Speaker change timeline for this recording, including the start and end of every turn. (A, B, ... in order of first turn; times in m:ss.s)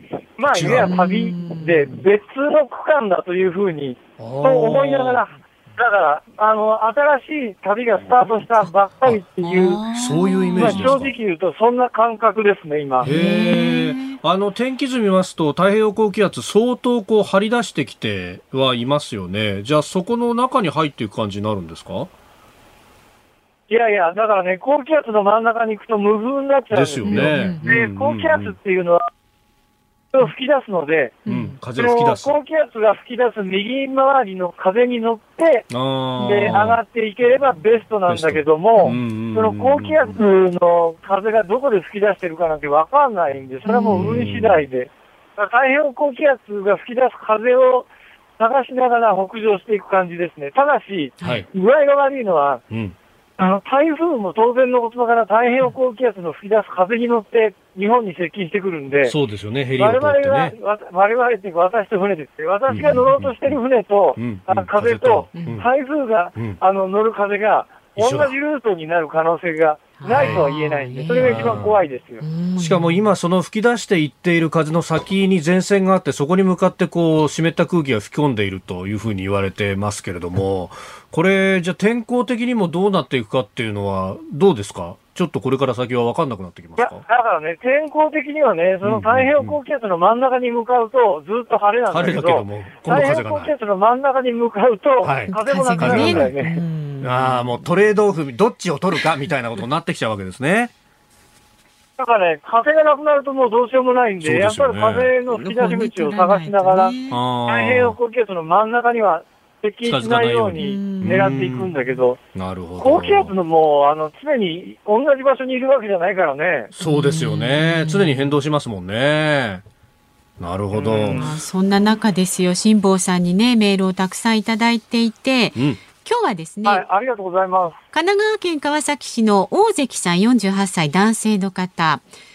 0:00.4-0:09.9 A
0:00.5-0:01.0 B
0:00.7-0:02.0 C
0:04.2-0:05.2 B
0:09.4-0:11.0 C
0:09.9-0:11.1 B
0:10.6-0:13.1 A
0:13.0-0:14.2 C
0:13.0-0:22.1 B
0:23.7-0:29.1 A
0:26.7-0:28.6 B
0:27.0-0:27.7 C
0:30.1-0:31.2 A
0:31.2-0:31.6 C
0:31.3-0:32.4 B
0:31.7-0:47.9 A
0:35.7-0:36.8 B
0:38.1-0:40.2 B
0:43.6-0:44.2 C
0:43.9-0:44.6 B
0:48.4-0:52.6 A
0:51.2-0:51.4 C
0:51.2-0:51.5 B
0:53.4-0:59.2 A
0:59.0-1:00.6 B
0:59.8-1:12.2 A
1:02.7-1:03.6 B
1:04.2-1:05.7 B
1:05.3-1:05.6 C
1:08.0-1:08.3 B
1:10.0-1:11.7 C
1:10.1-1:10.5 B
1:11.1-1:11.8 B
1:12.2-1:13.1 C
1:12.6-1:27.0 B
1:26.8-1:36.6 A
1:28.8-1:29.6 B
1:31.9-1:33.5 B
1:35.0-1:36.4 B
1:35.3-1:37.7 C
1:37.0-1:40.7 B
1:42.0-1:47.0 A
1:44.2-1:45.1 B
1:45.3-1:47.2 C
1:47.1-1:48.0 B
1:47.5-1:52.2 A
1:49.8-1:51.8 B
1:50.6-1:51.5 C
1:52.3-1:53.4 B
1:52.8-1:56.7 A
1:56.7-1:59.6 B
1:56.8-1:58.4 C
2:00.4-2:01.3 B
2:00.7-2:01.3 A
2:01.1-2:06.9 C
2:06.6-2:07.8 A
2:07.9-2:12.0 C